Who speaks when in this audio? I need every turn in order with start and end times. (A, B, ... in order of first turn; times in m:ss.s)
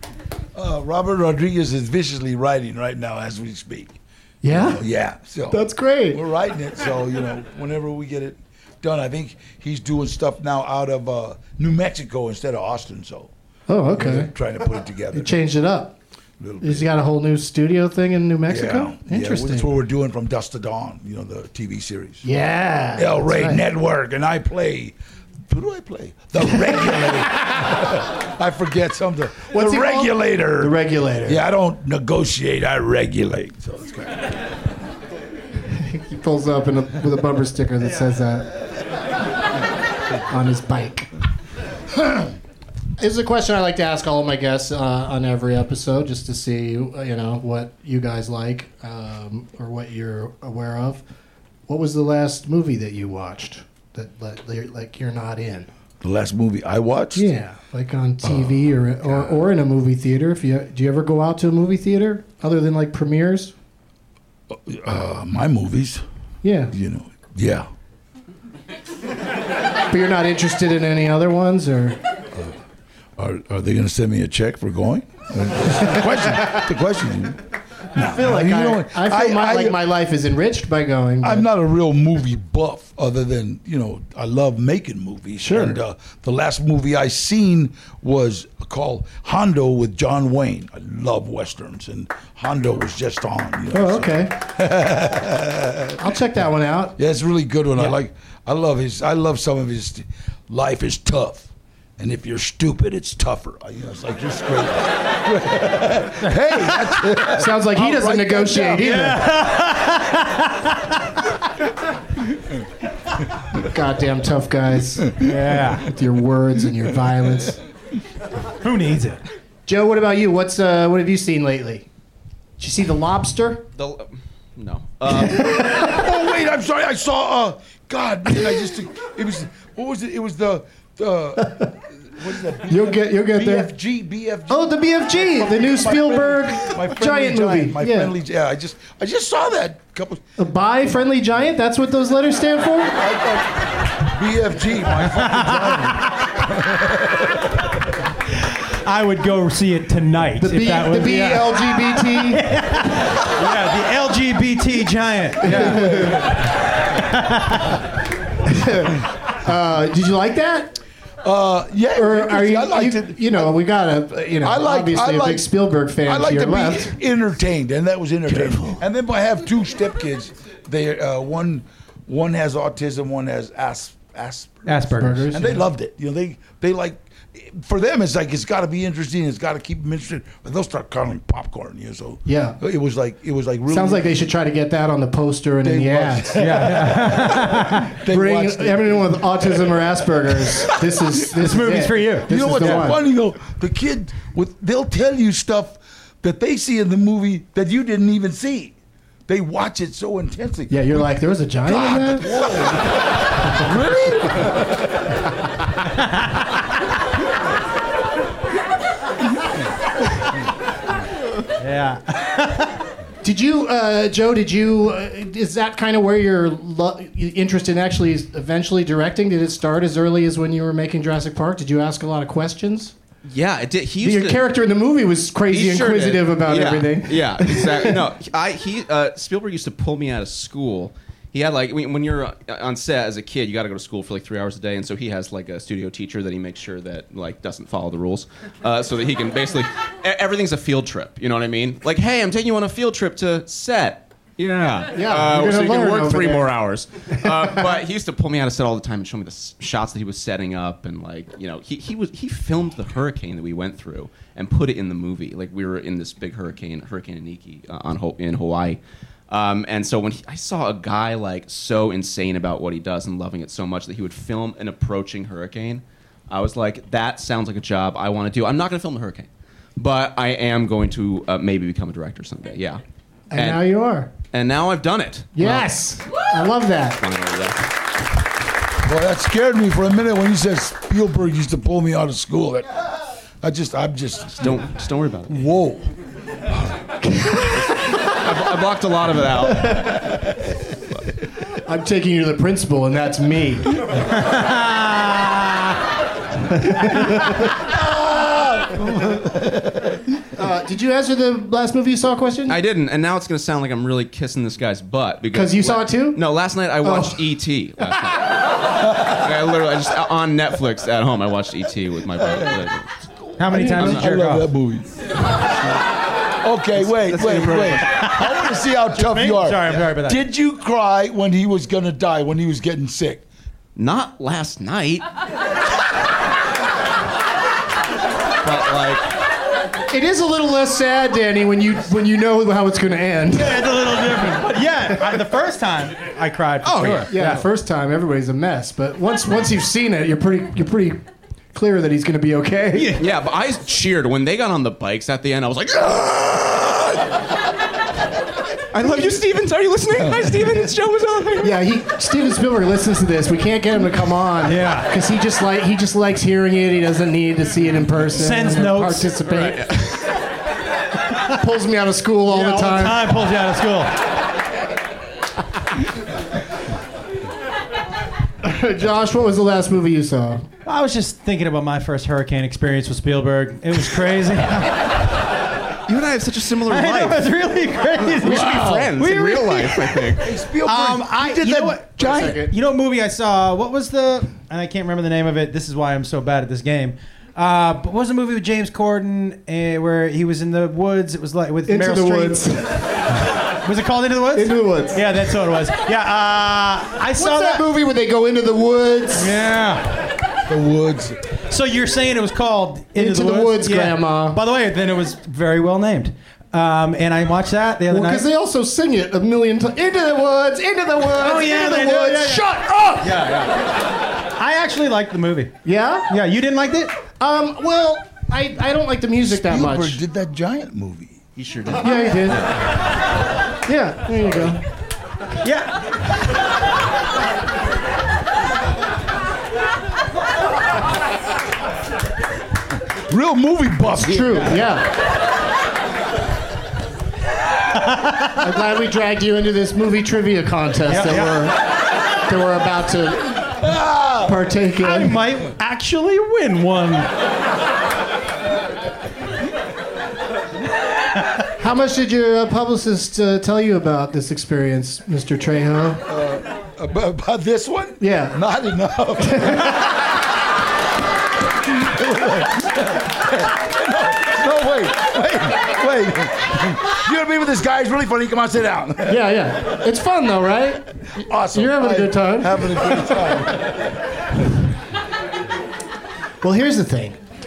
0:00.6-0:13.3 A
0:04.4-0:04.8 B
0:05.5-0:06.2 B
0:13.7-0:14.3 B
0:14.0-0:15.4 A
0:15.1-0:16.0 B
0:16.4-0:16.9 A
0:16.6-0:19.7 B
0:18.5-0:22.3 A
0:22.2-0:23.6 B
0:23.0-0:25.0 A
0:25.5-0:34.4 A
0:29.5-0:31.4 B
0:35.8-0:38.5 B
0:40.3-0:41.1 B
0:43.0-0:51.0 B
0:51.7-0:55.7 B
0:56.0-0:57.3 A
0:57.1-1:03.5 B
0:58.2-0:59.4 A
1:04.5-1:06.0 A
1:06.4-1:06.7 B
1:06.7-1:07.7 A
1:09.9-1:12.0 B
1:13.2-1:17.4 A
1:18.0-1:19.8 A
1:18.0-1:21.5 B
1:21.2-1:36.0 A
1:25.4-1:25.8 B
1:33.7-1:34.3 B
1:36.0-1:37.0 B
1:37.0-1:49.1 A
1:47.3-1:49.3 B
1:48.8-1:51.0 C
1:53.6-1:55.2 B
1:55.2-1:55.9 C
1:55.8-1:57.6 B
1:58.6-1:59.2 C
1:59.7-2:01.9 B
2:02.6-2:03.6 B
2:03.8-2:05.7 D
2:05.4-2:05.9 B
2:05.5-2:20.4 A
2:11.4-2:11.7 B
2:12.7-2:13.7 B
2:14.5-2:18.1 B
2:20.4-2:22.9 B
2:23.0-2:27.4 A
2:25.0-2:26.2 C
2:28.5-2:36.2 C
2:30.4-2:32.4 B
2:35.4-2:36.2 B
2:35.5-2:36.3 A
2:37.0-2:37.8 C
2:38.5-2:40.8 B
2:41.2-2:43.6 A
2:42.0-2:46.9 B
2:44.4-2:45.5 A
2:46.0-3:04.2 A
2:54.7-2:55.3 C
2:55.0-2:55.6 B
3:02.3-3:02.6 B
3:03.7-3:06.7 B
3:05.6-3:09.9 A
3:06.3-3:07.9 C
3:08.0-3:13.0 B
3:10.4-3:10.9 A
3:11.3-3:12.9 C
3:12.3-3:18.8 A
3:19.3-3:21.0 A
3:20.7-3:22.3 B
3:21.7-3:23.0 A
3:23.6-3:24.6 A
3:31.6-3:32.8 C
3:33.2-3:42.9 B
3:43.2-3:44.4 D
3:44.0-3:48.0 B
3:45.5-4:32.8 D
4:05.0-4:06.5 B
4:33.3-4:34.1 B
4:33.3-4:33.7 D
4:34.2-4:35.6 D
4:35.4-4:37.0 B
4:37.0-4:37.7 D
4:38.8-4:42.7 A
4:43.4-4:44.6 A
4:44.4-4:45.4 D
4:45.3-4:45.9 A
4:47.0-4:47.9 B
4:48.2-4:50.0 D
4:51.7-4:53.6 B
4:54.2-4:55.8 C
4:56.7-4:57.4 B
4:58.1-4:59.3 A
5:00.4-5:02.6 B
5:02.5-5:08.3 D
5:05.3-5:06.2 B
5:06.8-5:07.2 B
5:09.1-5:12.9 D
5:13.4-5:14.5 C
5:13.5-5:15.0 A
5:13.5-5:13.9 B
5:13.7-5:14.1 D
5:16.4-5:23.2 A
5:16.8-5:18.1 D
5:17.9-5:18.3 C
5:19.0-5:20.2 C
5:23.8-5:25.0 D
5:28.4-5:29.1 D
5:29.9-5:33.6 B
5:33.3-5:37.4 C
5:36.6-5:37.4 D
5:37.1-5:41.0 B
5:41.5-5:43.0 B
5:42.9-5:47.1 D
5:48.7-5:51.6 D
5:51.4-5:59.6 B
5:54.4-5:54.9 C
5:58.1-5:59.2 C
5:59.2-6:00.1 D
6:01.4-6:03.0 B
6:02.3-6:04.0 C
6:08.4-6:10.5 B
6:10.6-6:15.0 C
6:15.9-6:17.3 D
6:16.7-6:32.4 C
6:18.2-6:20.3 D
6:18.2-6:18.9 A
6:20.2-6:22.5 A
6:22.0-6:22.5 B
6:31.7-6:33.1 B
6:33.5-6:37.7 C
6:34.4-6:35.0 B
6:37.2-6:39.3 B
6:39.1-6:40.0 C
6:40.5-6:41.2 A
6:41.5-6:48.3 C
6:43.0-6:44.4 B
6:47.9-6:53.2 B
6:51.1-6:52.5 C
6:53.0-6:53.5 C
6:54.2-6:55.6 C
6:55.6-6:56.1 B
6:56.1-6:57.0 C
6:57.1-7:00.0 B
6:59.3-7:01.2 A
7:01.4-7:02.6 D
7:01.8-7:02.4 B
7:03.7-7:04.6 B
7:05.4-7:05.8 C
7:13.1-7:14.6 A
7:13.8-7:14.9 B
7:17.9-7:18.2 C
7:18.4-7:21.6 B
7:20.9-7:21.4 C
7:22.3-7:23.5 B
7:23.6-7:24.3 A
7:24.2-7:25.2 B
7:24.8-7:27.1 C
7:31.6-7:36.0 B
7:36.1-7:39.7 A
7:38.0-7:38.4 B
7:39.2-7:39.9 B
7:41.8-7:49.3 A
7:49.1-7:50.8 B
7:51.2-7:53.6 A
7:51.5-7:53.2 B
7:56.4-7:57.2 B